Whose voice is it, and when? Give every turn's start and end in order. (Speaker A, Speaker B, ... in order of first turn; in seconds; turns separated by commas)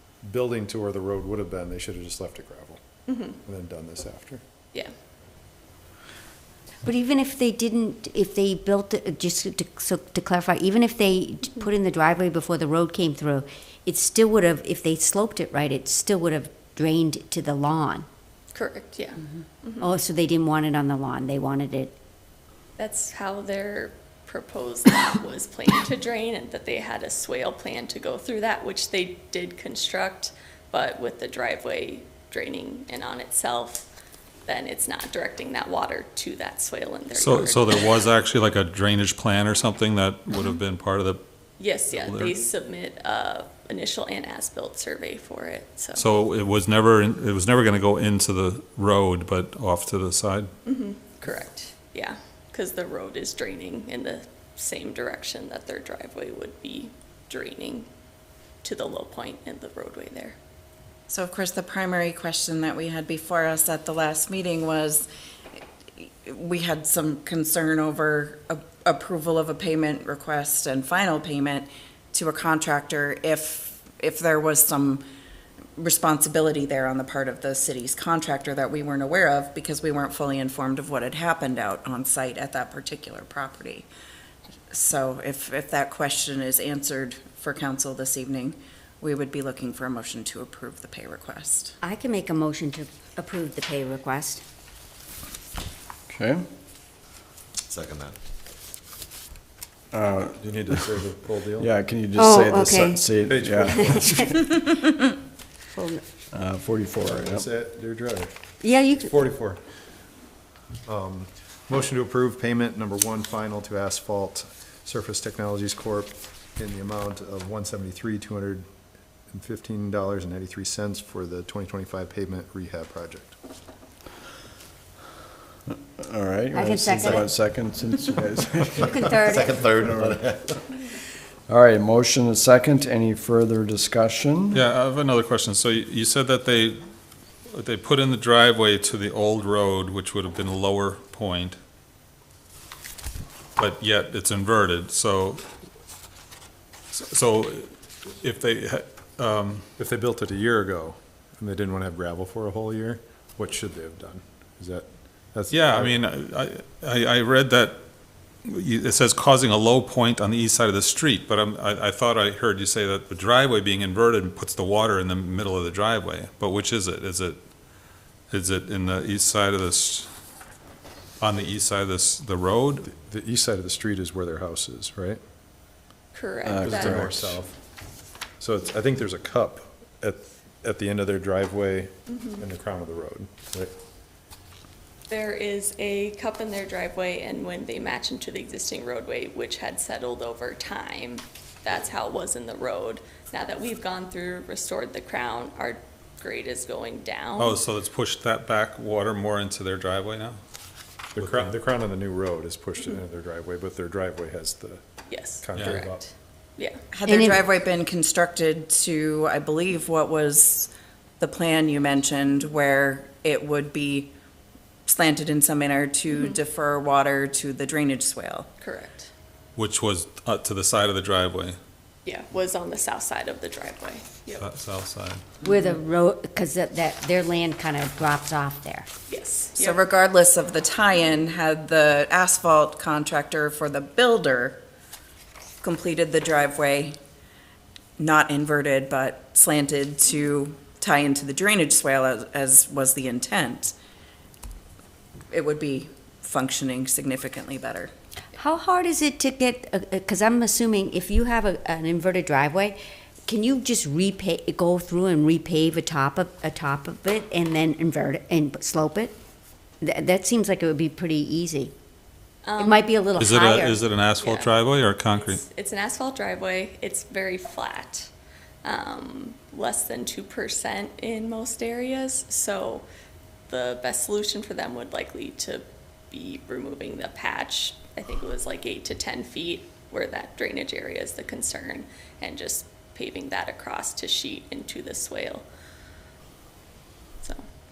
Speaker A: 0.2-2.8, Speaker B: 3.1-3.4, Speaker A: 3.4-4.4, Speaker C: 6.8-18.1, Speaker B: 18.5-19.9, Speaker C: 19.8-21.9, Speaker B: 22.8-33.9, Speaker B: 34.5-38.1, Speaker D: 37.1-41.2, Speaker B: 41.6-46.0, Speaker D: 41.9-42.3, Speaker D: 45.9-50.5, Speaker B: 50.6-57.9, Speaker B: 58.6-60.4, Speaker E: 61.1-65.1, Speaker E: 66.0-75.0, Speaker E: 75.8-83.9, Speaker E: 84.7-91.8, Speaker C: 91.8-94.4, Speaker F: 96.1-96.4, Speaker F: 99.9-100.9, Speaker A: 100.3-101.7, Speaker F: 101.6-104.5, Speaker C: 102.1-103.0, Speaker A: 103.2-104.2, Speaker C: 103.7-104.4, Speaker C: 105.7-106.0, Speaker F: 106.3-107.5, Speaker A: 107.0-108.3, Speaker C: 108.6-109.2, Speaker A: 109.0-109.6, Speaker A: 110.8-118.6, Speaker A: 119.3-123.3, Speaker F: 126.0-130.4, Speaker C: 126.5-127.3, Speaker C: 128.8-129.7, Speaker F: 131.5-134.6, Speaker D: 134.5-136.8, Speaker D: 137.5-141.6, Speaker D: 143.6-145.4, Speaker D: 146.9-149.7, Speaker A: 149.8-155.9, Speaker D: 155.5-157.8, Speaker D: 158.4-167.4, Speaker D: 168.3-170.1, Speaker D: 171.2-172.9, Speaker A: 172.8-175.2, Speaker B: 176.1-177.1, Speaker F: 176.4-177.3, Speaker A: 176.6-177.6, Speaker A: 178.4-183.7, Speaker B: 182.1-182.4, Speaker B: 185.1-197.6, Speaker D: 197.4-200.4, Speaker A: 201.1-204.8, Speaker D: 201.2-201.5, Speaker B: 205.1-206.8, Speaker A: 205.4-206.0, Speaker D: 205.5-205.8, Speaker E: 206.9-214.1, Speaker C: 207.1-207.4, Speaker E: 214.8-218.5, Speaker B: 216.1-216.4, Speaker B: 218.6-219.1, Speaker D: 219.6-221.6, Speaker B: 222.0-224.5, Speaker D: 224.4-225.2, Speaker C: 225.4-228.9, Speaker B: 229.1-229.8, Speaker E: 229.5-234.6, Speaker E: 235.6-237.0, Speaker E: 238.0-243.8, Speaker E: 245.3-247.9, Speaker C: 248.3-259.1, Speaker C: 259.8-261.7, Speaker B: 262.4-262.9, Speaker C: 262.6-263.8, Speaker D: 263.1-265.4, Speaker B: 264.2-264.5, Speaker B: 265.1-268.1, Speaker B: 268.6-272.8, Speaker B: 273.5-285.4